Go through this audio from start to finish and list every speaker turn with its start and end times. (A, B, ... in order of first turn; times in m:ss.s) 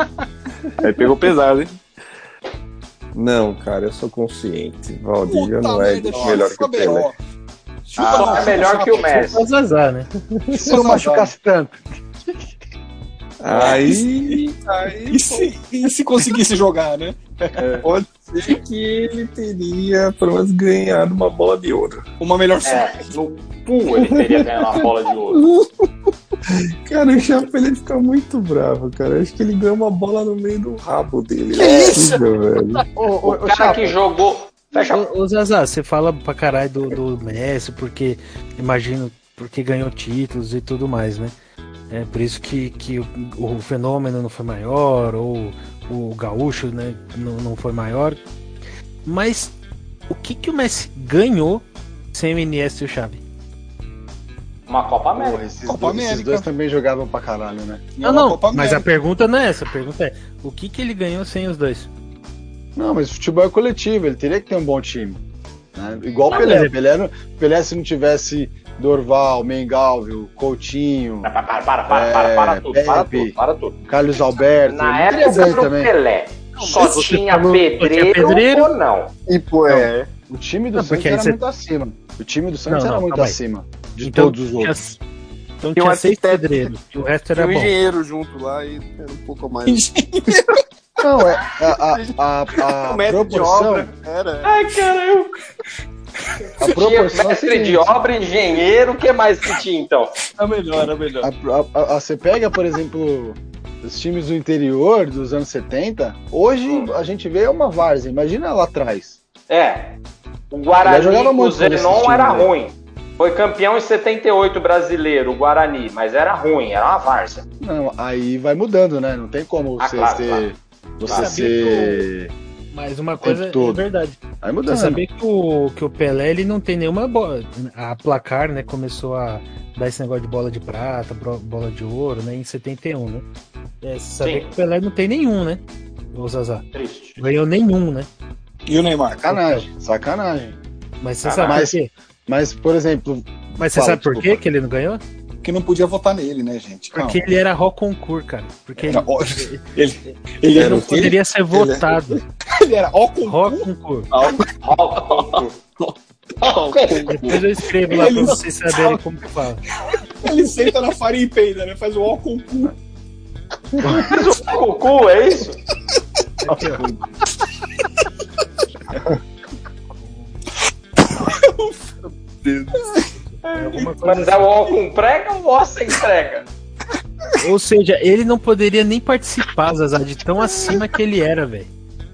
0:00.8-0:01.7 A
0:03.1-0:07.1 B
0:05.3-0:07.2 C
0:07.8-0:09.4 C
0:08.0-0:08.6 A
0:08.1-0:09.4 D
0:09.1-0:10.1 E
0:10.5-0:11.8 F
0:10.6-0:11.3 C
0:13.4-0:15.5 B
0:13.5-0:14.0 C
0:15.1-0:17.2 C
0:17.5-0:17.8 F
0:17.8-0:22.0 B
0:22.2-0:23.1 C
0:22.6-0:25.4 D
0:24.0-0:25.7 B
0:26.5-0:32.8 B
0:31.5-0:32.2 C
0:31.6-0:32.1 D
0:33.0-0:34.0 F
0:33.2-0:35.0 D
0:34.8-0:41.3 E
0:41.9-0:48.2 E
0:49.0-0:49.5 E
0:50.1-0:53.2 E
0:54.7-0:55.4 D
0:55.1-0:57.9 F
0:55.7-0:56.4 C
0:58.0-0:58.9 C
0:58.0-1:01.9 E
1:02.8-1:05.2 F
1:05.7-1:11.3 F
1:06.3-1:06.7 E
1:11.2-1:13.8 D
1:11.9-1:15.9 F
1:14.7-1:19.1 D
1:16.6-1:18.7 E
1:19.3-1:20.1 A
1:19.7-1:24.7 F
1:20.8-1:21.4 E
1:22.7-1:23.4 E
1:24.0-1:25.0 E
1:25.6-1:27.7 E
1:25.7-1:26.7 A
1:27.3-1:29.8 A
1:29.6-1:30.6 C
1:31.0-1:33.9 F
1:31.9-1:32.1 A
1:32.8-1:34.5 A
1:34.4-1:35.4 D
1:36.6-1:37.9 F
1:36.6-1:40.1 D
1:40.4-1:41.3 A
1:41.2-1:49.2 F
1:46.6-1:46.9 D
1:49.5-1:50.0 D
1:50.5-1:57.4 D
1:50.8-1:52.5 F
1:57.6-2:02.3 F
1:59.8-2:00.5 D
2:01.1-2:01.5 D
2:01.1-2:02.0 E
2:02.7-2:13.2 E
2:03.2-2:03.8 F
2:04.4-2:05.0 F
2:13.8-2:15.6 E
2:14.2-2:14.5 D
2:16.1-2:16.6 E
2:16.7-2:17.2 D
2:17.2-2:18.1 E
2:18.7-2:19.2 C
2:19.2-2:20.6 F
2:19.3-2:19.6 E
2:21.0-2:21.9 E
2:21.2-2:21.6 D
2:21.4-2:21.8 F
2:22.3-2:24.4 F
2:23.6-2:25.0 E
2:25.4-2:27.2 C
2:26.9-2:29.6 E
2:28.8-2:31.9 C
2:30.5-2:31.2 B
2:30.6-2:32.2 E
2:32.5-2:34.4 C
2:33.2-2:34.1 E
2:34.6-2:35.5 D
2:36.4-2:37.1 D
2:36.4-2:37.4 A
2:37.1-2:39.6 E
2:37.2-2:39.0 C
2:37.9-2:38.4 A
2:40.2-2:42.7 C
2:43.8-2:44.1 F
2:43.8-2:45.6 D
2:43.9-2:44.2 C
2:46.4-2:46.8 E
2:46.4-2:47.0 F
2:51.2-2:51.7 C
2:53.2-2:54.5 E
2:53.7-2:56.4 D
2:57.4-3:01.7 E